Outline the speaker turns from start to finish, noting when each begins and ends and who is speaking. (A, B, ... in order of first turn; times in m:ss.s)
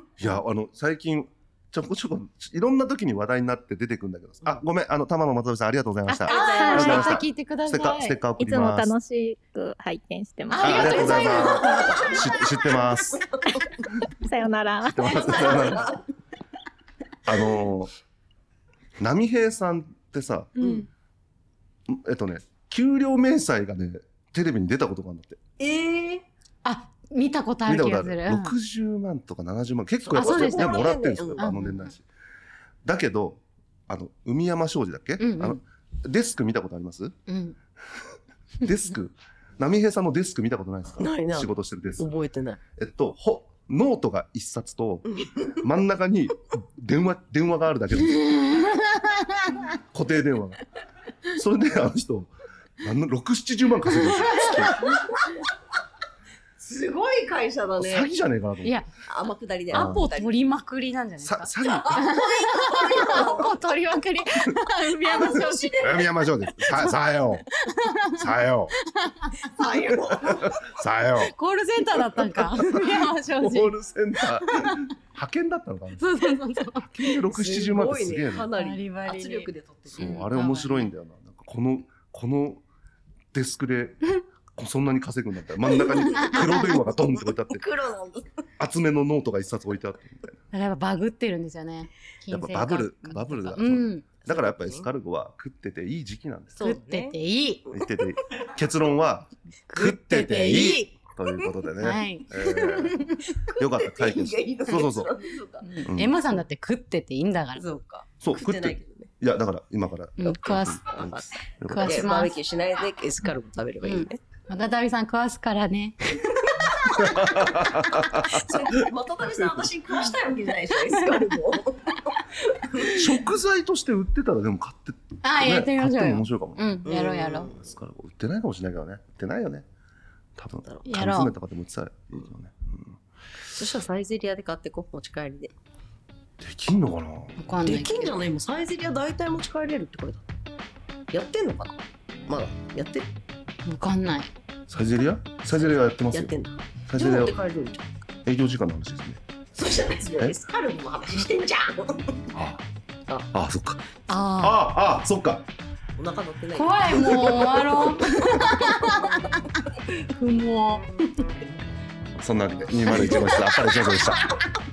0:00.2-0:08.9 A
0:06.1-0:08.2 B
0:06.3-0:07.1 C
0:06.3-0:07.1 D
0:08.4-0:11.6 D
0:10.5-0:13.5 C
0:10.6-0:13.2 A
0:14.2-0:15.8 D
0:14.8-0:15.9 A
0:15.1-0:16.0 C
0:17.3-0:17.9 A
0:19.0-0:20.5 A
0:20.6-0:20.9 B
0:20.6-0:20.9 C
0:21.9-0:25.4 A
0:25.6-0:26.2 C
0:26.6-0:28.6 B
0:27.7-0:32.0 A
0:30.0-0:31.5 C
0:30.2-0:31.9 B
0:32.8-0:37.2 A
0:35.2-0:35.6 B
0:37.3-0:37.6 B
0:38.6-0:42.1 A
0:41.0-0:42.6 C
0:42.8-0:48.4 A
0:45.2-0:45.5 C
0:48.1-0:49.6 B
0:49.9-0:50.6 A
0:51.3-0:55.0 A
0:54.2-0:54.8 B
0:54.9-0:55.2 C
0:56.6-0:58.1 C
0:57.8-0:58.8 A
0:59.1-1:00.4 C
0:59.7-1:00.1 A
0:59.7-1:05.8 B
1:01.2-1:02.0 A
1:01.7-1:03.6 C
1:05.0-1:06.1 C
1:05.8-1:07.5 A
1:07.6-1:08.2 B
1:08.2-1:08.7 A
1:08.9-1:09.3 B
1:09.4-1:10.6 C
1:10.4-1:11.4 A
1:11.2-1:14.8 B
1:12.3-1:12.8 A
1:13.4-1:18.5 A
1:16.0-1:17.2 B
1:17.3-1:20.2 C
1:18.4-1:20.9 B
1:20.0-1:22.6 A
1:23.3-1:27.6 A
1:25.7-1:28.3 C
1:26.1-1:26.5 B
1:28.6-1:30.4 A
1:30.5-1:34.1 B
1:32.3-1:36.6 A
1:34.3-1:34.9 C
1:36.6-1:37.2 C
1:36.6-1:37.6 B
1:37.7-1:43.0 A
1:39.7-1:40.9 B
1:41.8-1:43.2 B
1:43.4-1:45.7 C
1:43.6-1:45.1 A
1:45.6-1:47.6 B
1:45.8-1:46.2 A
1:47.6-1:49.1 C
1:48.2-1:52.1 A
1:50.2-1:50.9 B
1:50.9-1:54.2 C
1:51.7-1:52.3 B
1:53.8-1:56.3 B
1:56.9-1:58.6 A
1:58.3-2:03.1 C
2:00.9-2:01.2 B
2:03.0-2:06.9 A
2:05.2-2:07.5 B
2:06.9-2:07.6 C
2:07.4-2:09.7 A
2:10.4-2:13.0 A
2:10.8-2:11.3 B
2:13.5-2:15.5 C
2:16.4-2:17.4 A
2:17.4-2:18.2 B
2:17.6-2:20.2 C
2:21.1-2:23.1 C
2:23.7-2:24.3 B
2:24.7-2:26.3 A
2:26.1-2:27.9 C
2:26.9-2:27.4 A
2:28.3-2:29.2 A
2:29.6-2:32.2 C
2:32.3-2:32.6 A
2:33.3-2:33.9 A
2:34.1-2:34.6 B
2:34.4-2:35.4 A
2:36.0-2:39.2 C
2:36.6-2:40.9 B
2:42.2-2:44.2 A
2:42.9-2:44.3 B
2:43.0-2:43.3 C